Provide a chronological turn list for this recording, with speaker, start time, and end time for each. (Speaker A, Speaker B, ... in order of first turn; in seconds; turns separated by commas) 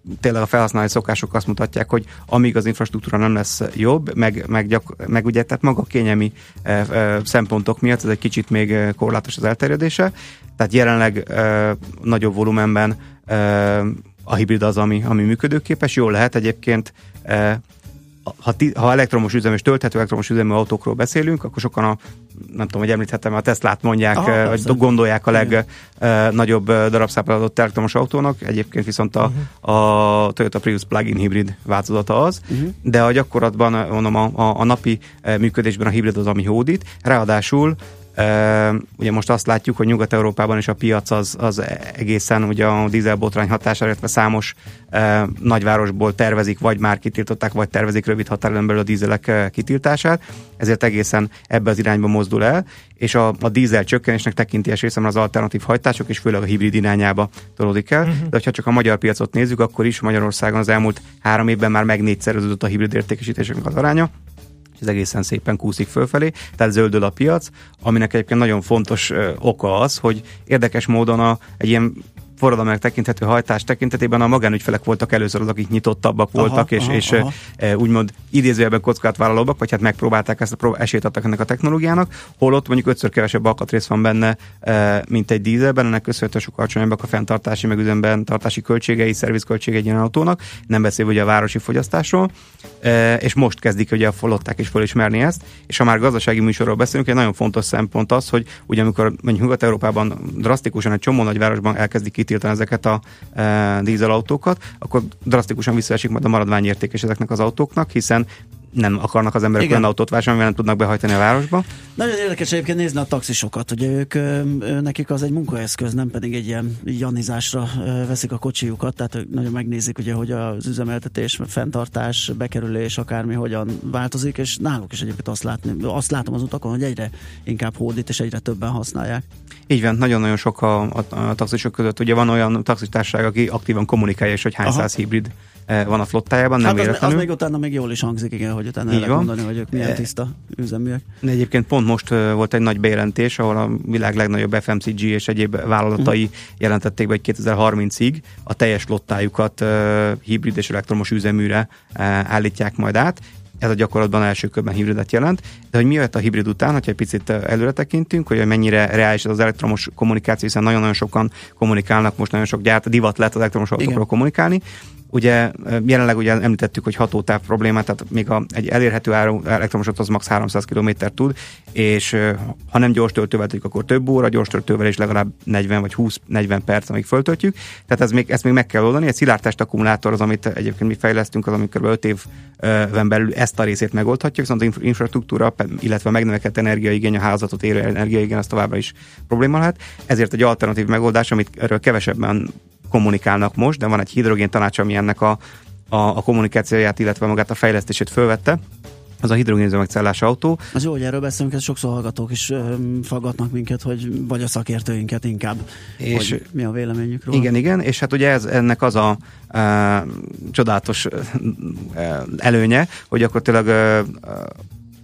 Speaker A: 0.2-17.6, Speaker A: 18.3-64.1, Speaker B: 24.1-25.6, Speaker B: 32.5-32.8, Speaker A: 64.8-92.3, Speaker B: 76.4-77.4, Speaker A: 92.8-111.7, Speaker B: 109.6-109.9, Speaker B: 112.0-129.2, Speaker A: 129.7-137.3, Speaker B: 134.6-134.9, Speaker B: 136.6-141.1, Speaker A: 138.9-140.0, Speaker A: 141.2-195.4, Speaker B: 163.8-164.0, Speaker A: 195.9-198.6, Speaker A: 199.2-200.6, Speaker B: 200.7-207.5, Speaker A: 206.0-206.4, Speaker A: 207.3-214.6